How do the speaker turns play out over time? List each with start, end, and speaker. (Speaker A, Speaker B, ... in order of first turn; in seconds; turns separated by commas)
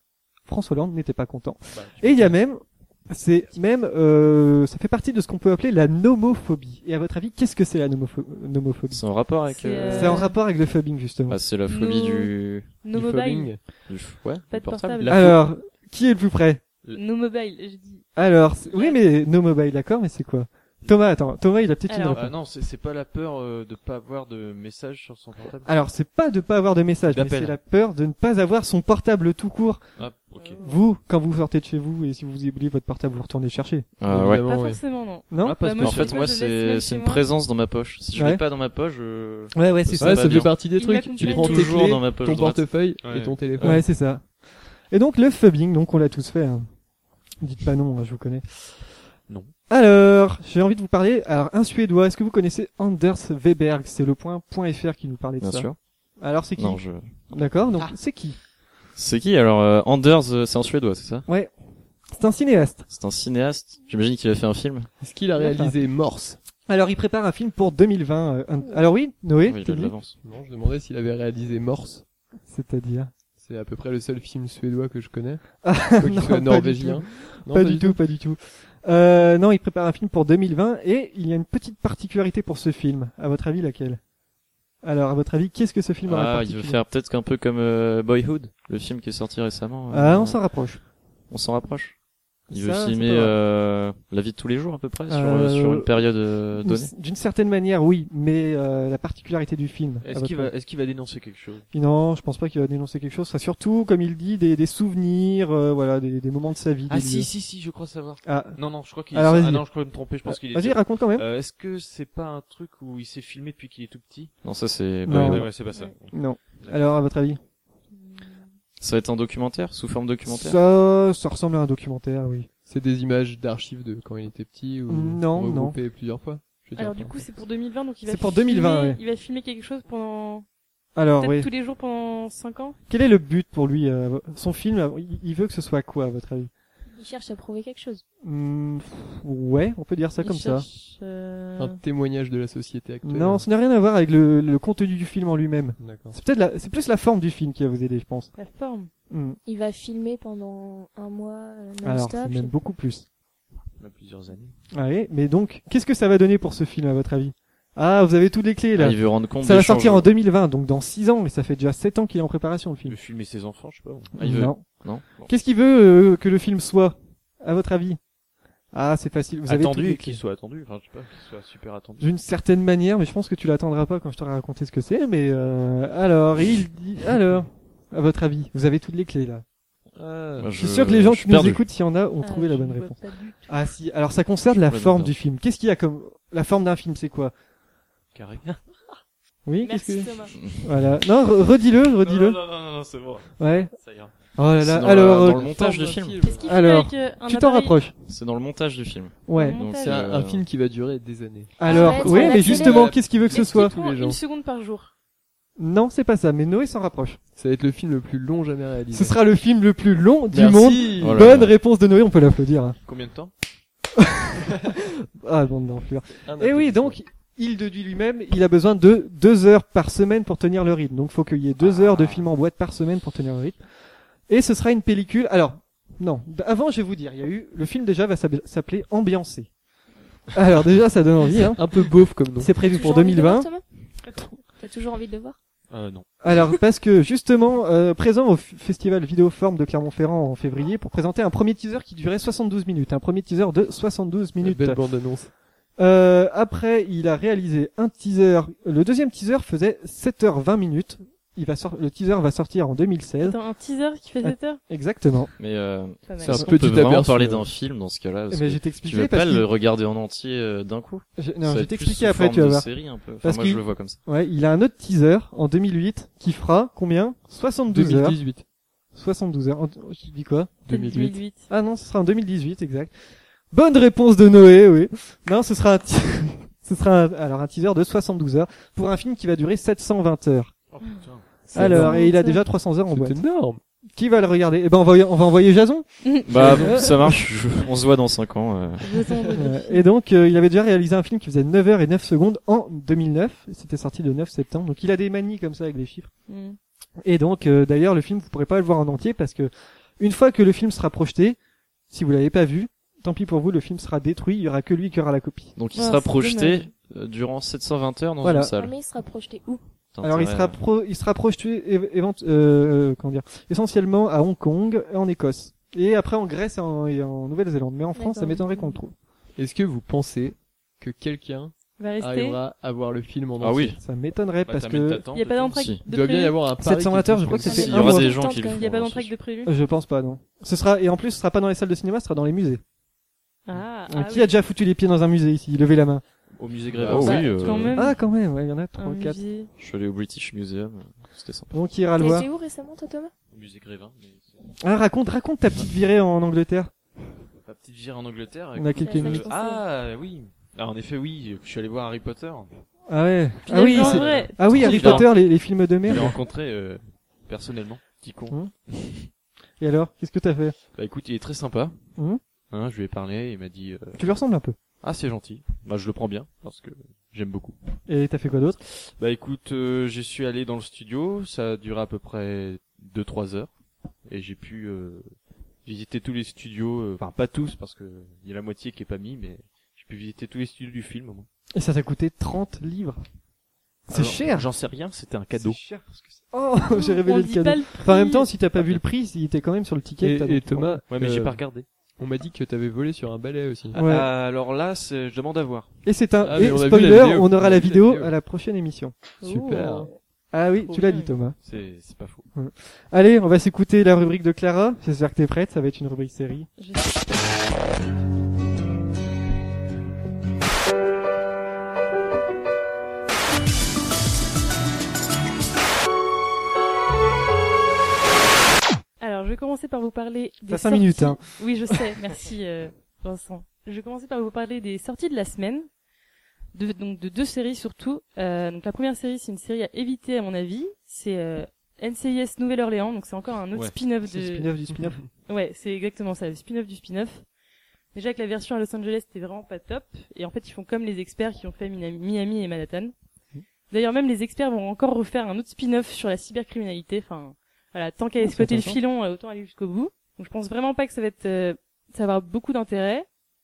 Speaker A: 0.5-9.0, Speaker B: 1.7-2.3, Speaker C: 8.9-10.3, Speaker D: 9.5-10.3, Speaker A: 9.9-11.4, Speaker C: 11.3-12.8, Speaker D: 11.7-13.8, Speaker E: 12.9-13.7, Speaker C: 13.8-15.2, Speaker D: 14.5-15.1, Speaker B: 15.0-15.5, Speaker A: 15.1-16.6, Speaker D: 16.9-18.1, Speaker A: 18.1-22.3, Speaker D: 18.7-19.0, Speaker D: 21.9-22.2, Speaker B: 22.1-25.7, Speaker A: 25.6-29.8, Speaker B: 27.1-27.5, Speaker B: 30.0-30.7, Speaker D: 30.4-30.8, Speaker A: 30.6-33.9, Speaker C: 34.0-34.5, Speaker E: 34.1-34.8, Speaker D: 34.4-37.2, Speaker A: 35.3-35.8, Speaker B: 35.4-36.3, Speaker C: 35.8-42.9, Speaker A: 38.1-38.4, Speaker A: 39.5-40.5, Speaker E: 40.0-43.8, Speaker D: 40.6-41.9, Speaker B: 43.0-43.4, Speaker A: 43.6-44.3, Speaker A: 44.9-46.7, Speaker A: 47.4-48.7, Speaker A: 49.7-58.4, Speaker C: 55.4-55.8, Speaker C: 56.6-57.1, Speaker C: 59.0-61.3, Speaker A: 61.3-61.5, Speaker A: 62.1-62.9, Speaker C: 62.9-65.0, Speaker E: 65.0-66.4, Speaker A: 65.3-65.8, Speaker A: 66.7-69.9, Speaker C: 69.4-70.2, Speaker E: 70.2-72.0, Speaker A: 72.5-73.1, Speaker E: 73.3-78.0, Speaker A: 75.6-84.0, Speaker A: 84.8-86.8, Speaker C: 86.0-90.4, Speaker A: 89.9-90.8, Speaker C: 91.3-92.0, Speaker A: 92.5-93.3, Speaker C: 92.5-96.9, Speaker A: 95.1-100.5, Speaker B: 100.0-101.7, Speaker A: 101.7-107.3, Speaker B: 106.9-114.3, Speaker A: 108.2-108.6, Speaker A: 109.1-109.6, Speaker A: 110.2-111.2, Speaker C: 114.4-115.5, Speaker A: 115.1-115.5, Speaker B: 115.1-116.8, Speaker A: 116.1-117.4, Speaker D: 117.9-118.5, Speaker C: 118.8-120.6, Speaker A: 120.2-122.5, Speaker E: 122.7-127.3, Speaker A: 124.9-125.8, Speaker D: 126.8-130.4, Speaker A: 128.1-129.0, Speaker A: 130.9-131.5, Speaker D: 131.2-132.8, Speaker A: 132.9-136.5, Speaker F: 136.9-138.0, Speaker A: 138.2-140.7, Speaker D: 140.2-141.8, Speaker E: 141.6-143.4, Speaker A: 143.0-148.3, Speaker E: 145.8-146.2, Speaker D: 148.3-148.9, Speaker A: 149.1-149.4, Speaker F: 149.4-152.5, Speaker A: 151.8-153.1, Speaker B: 153.8-154.5, Speaker A: 154.7-163.0, Speaker C: 158.7-160.1, Speaker B: 162.8-164.2, Speaker A: 164.2-168.0, Speaker C: 164.2-165.3, Speaker A: 168.7-170.2, Speaker B: 169.5-172.1, Speaker A: 172.0-179.4, Speaker B: 179.9-180.5, Speaker C: 180.4-181.6, Speaker A: 180.6-187.3, Speaker D: 182.2-183.5, Speaker C: 184.7-185.1, Speaker B: 188.1-188.6, Speaker A: 189.4-192.4, Speaker D: 189.6-190.3, Speaker C: 190.4-190.7, Speaker B: 192.0-194.1, Speaker A: 193.4-193.7, Speaker A: 194.3-195.5, Speaker C: 194.6-196.3, Speaker E: 195.1-196.6, Speaker D: 196.2-197.8, Speaker A: 196.4-197.9, Speaker C: 198.1-200.5, Speaker A: 199.3-199.6, Speaker D: 199.3-200.0, Speaker E: 199.7-204.2, Speaker A: 201.6-203.7, Speaker F: 201.7-202.9, Speaker D: 201.7-202.0, Speaker D: 203.3-204.9, Speaker A: 205.6-207.2, Speaker E: 207.3-209.2, Speaker A: 208.9-212.8, Speaker E: 210.3-211.3, Speaker C: 211.0-211.5, Speaker B: 212.8-213.3, Speaker A: 214.0-223.6, Speaker E: 216.2-217.0, Speaker B: 221.6-222.2, Speaker A: 224.3-229.5, Speaker A: 230.3-233.5, Speaker E: 231.5-232.5, Speaker F: 232.6-233.6, Speaker F: 234.4-235.4, Speaker B: 235.7-236.1, Speaker A: 236.2-244.8, Speaker E: 244.4-245.3, Speaker A: 245.8-253.4, Speaker D: 253.2-254.6, Speaker A: 254.2-255.3, Speaker C: 255.4-264.0, Speaker D: 256.1-256.6, Speaker E: 256.1-257.5, Speaker A: 258.3-259.5, Speaker A: 261.2-268.2, Speaker E: 267.7-268.4, Speaker A: 268.9-270.6, Speaker E: 270.6-271.2, Speaker D: 270.7-271.5, Speaker A: 271.5-272.9, Speaker A: 273.5-280.5, Speaker B: 280.7-281.3, Speaker E: 281.4-282.1, Speaker A: 281.5-283.2, Speaker D: 281.6-282.4, Speaker E: 282.9-283.6, Speaker A: 283.9-287.2, Speaker D: 286.0-286.9, Speaker C: 286.2-289.0, Speaker D: 288.8-289.8, Speaker A: 289.4-296.1, Speaker D: 296.3-296.6, Speaker A: 297.0-301.4, Speaker A: 301.9-305.5, Speaker C: 305.6-308.8, Speaker D: 305.8-306.7, Speaker A: 308.2-308.5, Speaker F: 308.5-309.6, Speaker C: 309.9-310.6, Speaker A: 310.0-318.9, Speaker F: 317.9-318.8, Speaker E: 319.4-323.8, Speaker D: 321.8-322.4, Speaker C: 323.4-323.8, Speaker A: 323.8-325.0, Speaker B: 324.4-325.6, Speaker D: 325.1-326.4, Speaker C: 325.5-325.8, Speaker E: 325.9-327.8, Speaker A: 326.6-328.1, Speaker F: 327.4-328.6, Speaker C: 327.5-329.1, Speaker D: 328.5-329.5, Speaker A: 329.4-332.6, Speaker D: 333.4-334.3, Speaker A: 333.9-336.0, Speaker B: 336.4-337.8, Speaker C: 336.8-337.8, Speaker D: 336.9-338.0, Speaker A: 337.8-339.2, Speaker D: 338.8-339.5, Speaker C: 339.6-341.5, Speaker A: 341.5-342.3, Speaker F: 341.9-343.1, Speaker B: 343.3-344.3, Speaker A: 344.6-346.7, Speaker B: 347.4-352.6, Speaker A: 348.5-349.3, Speaker F: 348.8-349.6, Speaker A: 352.9-356.2, Speaker D: 353.5-355.1, Speaker B: 353.6-355.1, Speaker C: 354.5-355.0, Speaker B: 355.9-359.1, Speaker A: 359.6-360.6, Speaker B: 360.7-361.8, Speaker B: 362.5-364.0, Speaker A: 364.0-364.6, Speaker B: 364.8-367.6, Speaker A: 367.9-368.6, Speaker B: 368.6-373.5, Speaker B: 374.1-375.0, Speaker B: 375.6-381.3, Speaker A: 381.5-383.0, Speaker A: 383.9-384.5, Speaker B: 383.9-385.6, Speaker A: 385.3-390.8, Speaker D: 386.7-388.3, Speaker E: 390.0-391.4, Speaker B: 390.9-391.7, Speaker E: 392.0-393.8, Speaker A: 393.7-394.1, Speaker B: 393.7-395.7, Speaker A: 395.8-398.9, Speaker E: 396.2-398.1, Speaker D: 399.2-399.9, Speaker E: 399.2-399.9, Speaker A: 400.3-401.4, Speaker D: 400.6-401.1, Speaker B: 401.4-402.3, Speaker A: 402.3-406.5, Speaker D: 406.6-407.0, Speaker D: 419.0-425.7, Speaker A: 420.5-421.8, Speaker D: 426.5-434.5, Speaker A: 434.1-435.0, Speaker D: 435.3-437.2, Speaker D: 437.9-442.9, Speaker D: 443.7-453.1, Speaker A: 448.2-448.8